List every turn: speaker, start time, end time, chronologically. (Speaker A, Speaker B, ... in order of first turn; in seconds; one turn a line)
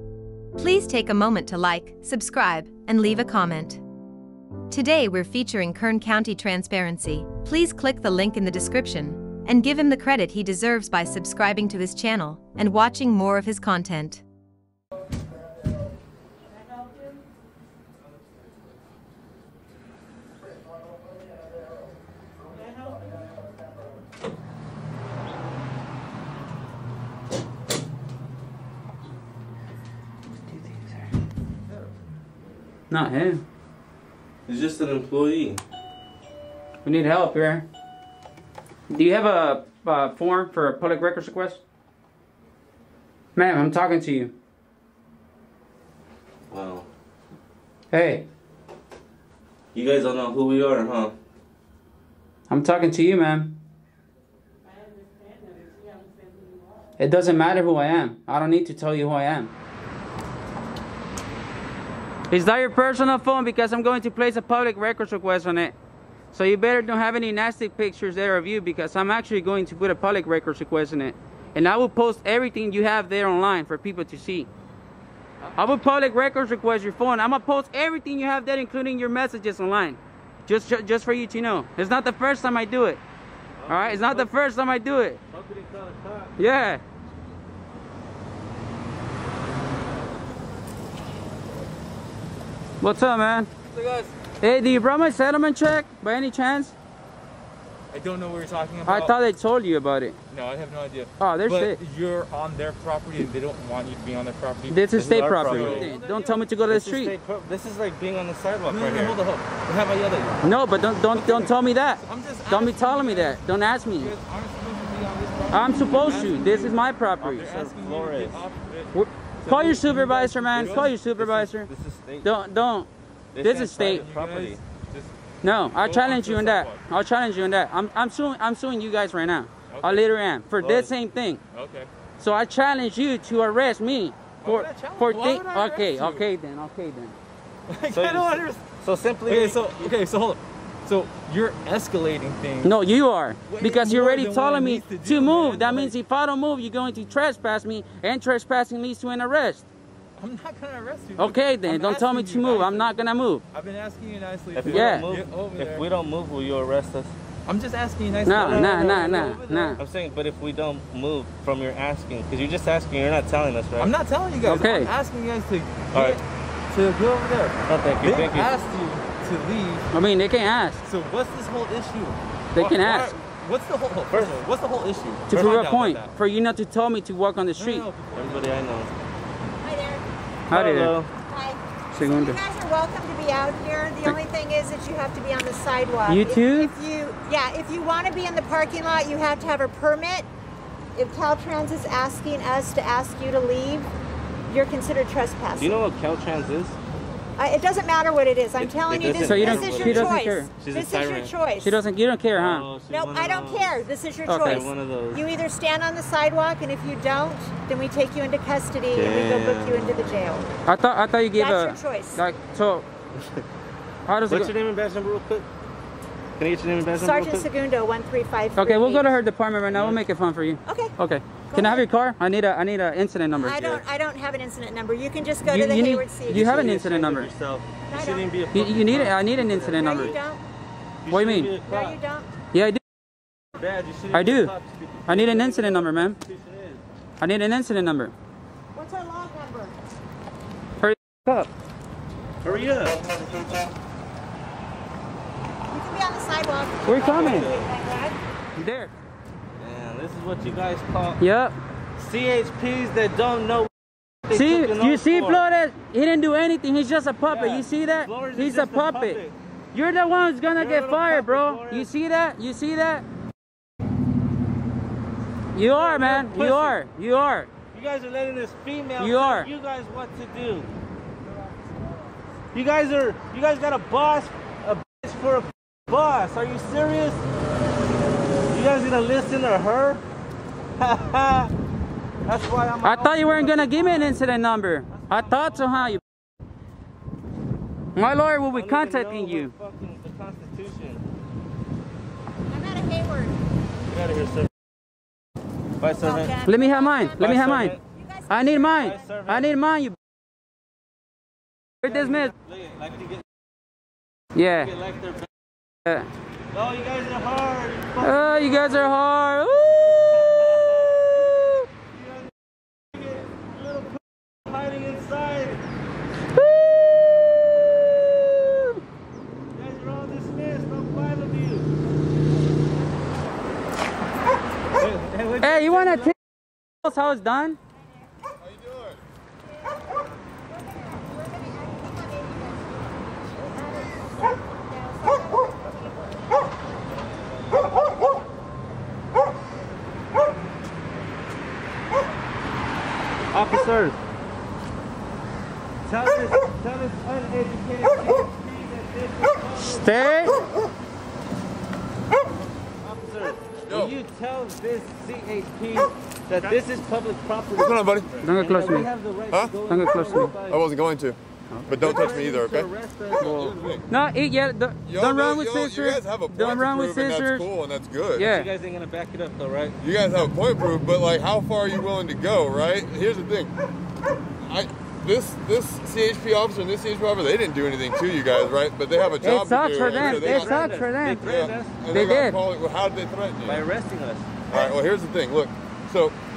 Speaker A: 0.6-3.8
Speaker A: 4.7-14.2
Speaker B: 30.5-31.0
Speaker B: 32.9-33.4
Speaker C: 34.5-35.6
Speaker B: 36.8-37.7
Speaker B: 38.9-41.6
Speaker B: 43.3-44.3
Speaker C: 46.5-46.9
Speaker B: 47.9-48.3
Speaker C: 49.7-51.1
Speaker B: 52.5-53.6
Speaker D: 55.0-56.4
Speaker B: 57.0-59.5
Speaker B: 62.3-65.7
Speaker B: 66.3-74.5
Speaker B: 75.5-83.0
Speaker C: 83.6-84.3
Speaker B: 83.7-85.2
Speaker C: 85.3-86.3
Speaker B: 86.4-86.8
Speaker B: 92.8-93.5
Speaker B: 94.4-96.7
Speaker E: 97.9-99.2
Speaker B: 98.8-100.2
Speaker E: 100.3-106.4
Speaker B: 101.2-101.8
Speaker B: 104.7-107.2
Speaker C: 105.0-105.9
Speaker C: 106.7-109.2
Speaker E: 108.7-110.5
Speaker B: 110.4-114.1
Speaker E: 111.1-113.4
Speaker E: 114.0-118.9
Speaker B: 115.5-117.5
Speaker C: 115.9-116.3
Speaker C: 117.4-118.4
Speaker B: 118.9-121.7
Speaker E: 119.4-120.9
Speaker C: 120.5-122.3
Speaker B: 122.2-122.9
Speaker C: 123.3-124.6
Speaker B: 123.4-124.0
Speaker E: 123.8-125.1
Speaker B: 125.4-131.4
Speaker E: 125.8-126.8
Speaker E: 129.7-130.0
Speaker C: 130.6-130.9
Speaker E: 131.5-131.9
Speaker B: 132.2-137.2
Speaker E: 134.4-136.2
Speaker E: 137.7-138.6
Speaker C: 137.9-139.7
Speaker E: 139.2-142.7
Speaker B: 142.6-149.7
Speaker E: 143.5-145.9
Speaker E: 150.2-152.9
Speaker B: 151.2-153.4
Speaker E: 153.5-155.8
Speaker C: 154.5-157.1
Speaker B: 154.7-155.1
Speaker E: 157.4-159.6
Speaker B: 158.2-159.8
Speaker C: 158.3-163.9
Speaker E: 163.8-169.9
Speaker B: 164.4-164.9
Speaker C: 165.9-166.2
Speaker C: 167.7-168.5
Speaker B: 169.9-170.8
Speaker E: 170.8-176.1
Speaker B: 172.5-173.1
Speaker C: 174.1-174.4
Speaker B: 175.3-177.8
Speaker E: 177.6-178.6
Speaker C: 178.1-178.9
Speaker D: 179.6-180.0
Speaker B: 180.5-180.9
Speaker C: 180.5-181.1
Speaker D: 181.3-190.3
Speaker B: 181.9-182.4
Speaker B: 186.1-186.8
Speaker D: 190.9-193.9
Speaker D: 194.5-195.7
Speaker C: 195.6-196.8
Speaker D: 197.4-201.8
Speaker C: 198.6-201.3
Speaker B: 199.2-200.5
Speaker B: 201.6-202.7
Speaker C: 202.3-203.8
Speaker D: 202.9-210.4
Speaker B: 204.2-204.7
Speaker C: 204.4-205.3
Speaker C: 208.9-210.1
Speaker B: 210.7-212.8
Speaker D: 211.3-212.2
Speaker B: 214.1-214.5
Speaker C: 214.3-215.5
Speaker C: 216.4-217.5
Speaker D: 216.9-219.1
Speaker B: 218.6-223.6
Speaker C: 219.7-220.0
Speaker D: 220.7-220.9
Speaker D: 221.5-221.8
Speaker D: 223.4-226.7
Speaker C: 223.5-223.8
Speaker B: 225.4-227.3
Speaker C: 226.3-230.3
Speaker D: 227.9-228.2
Speaker B: 228.5-230.2
Speaker D: 229.8-230.4
Speaker C: 231.0-232.0
Speaker B: 231.1-231.5
Speaker D: 231.6-232.3
Speaker B: 232.5-232.8
Speaker C: 233.6-236.8
Speaker B: 234.1-234.5
Speaker B: 235.1-236.2
Speaker B: 237.2-238.1
Speaker D: 238.7-239.7
Speaker B: 240.8-241.5
Speaker C: 242.4-243.1
Speaker D: 245.7-248.2
Speaker B: 246.8-247.5
Speaker C: 247.0-247.7
Speaker B: 248.6-248.9
Speaker C: 249.6-251.2
Speaker B: 251.2-251.6
Speaker C: 252.0-253.7
Speaker C: 254.2-255.4
Speaker B: 254.3-259.2
Speaker C: 257.3-259.4
Speaker B: 259.7-263.1
Speaker C: 260.5-261.9
Speaker B: 265.5-267.5
Speaker C: 265.7-266.8
Speaker C: 267.7-270.7
Speaker B: 269.0-269.5
Speaker C: 272.5-277.2
Speaker C: 278.5-280.0
Speaker C: 280.8-281.5
Speaker C: 282.2-284.2
Speaker B: 282.8-286.0
Speaker C: 284.9-285.9
Speaker B: 287.9-289.5
Speaker C: 288.5-291.0
Speaker D: 292.5-293.4
Speaker C: 293.9-294.5
Speaker C: 295.8-296.4
Speaker D: 295.9-297.5
Speaker B: 296.4-297.8
Speaker C: 297.2-297.8
Speaker D: 298.0-298.7
Speaker B: 298.3-300.0
Speaker C: 298.5-299.5
Speaker B: 301.8-302.3
Speaker C: 301.9-303.2
Speaker B: 304.4-304.7
Speaker C: 304.6-305.3
Speaker C: 306.5-308.9
Speaker B: 308.0-311.6
Speaker C: 310.1-311.3
Speaker C: 311.9-312.3
Speaker C: 312.9-315.6
Speaker B: 316.3-318.8
Speaker C: 319.5-321.7
Speaker C: 324.8-326.1
Speaker B: 325.4-326.2
Speaker B: 326.8-327.6
Speaker F: 328.4-329.0
Speaker D: 330.5-336.4
Speaker C: 343.3-344.0
Speaker C: 345.9-350.1
Speaker B: 349.6-350.4
Speaker C: 352.8-360.6
Speaker F: 353.7-353.9
Speaker F: 357.6-358.2
Speaker B: 358.2-358.9
Speaker F: 359.3-359.6
Speaker B: 359.7-360.3
Speaker F: 360.4-363.9
Speaker C: 361.7-363.8
Speaker B: 363.2-367.5
Speaker F: 364.9-368.3
Speaker B: 368.1-368.5
Speaker C: 368.2-369.8
Speaker F: 369.8-373.5
Speaker F: 374.4-380.7
Speaker B: 379.2-381.2
Speaker C: 379.8-381.8
Speaker F: 381.2-383.7
Speaker B: 381.9-382.4
Speaker C: 383.4-384.3
Speaker F: 384.5-386.2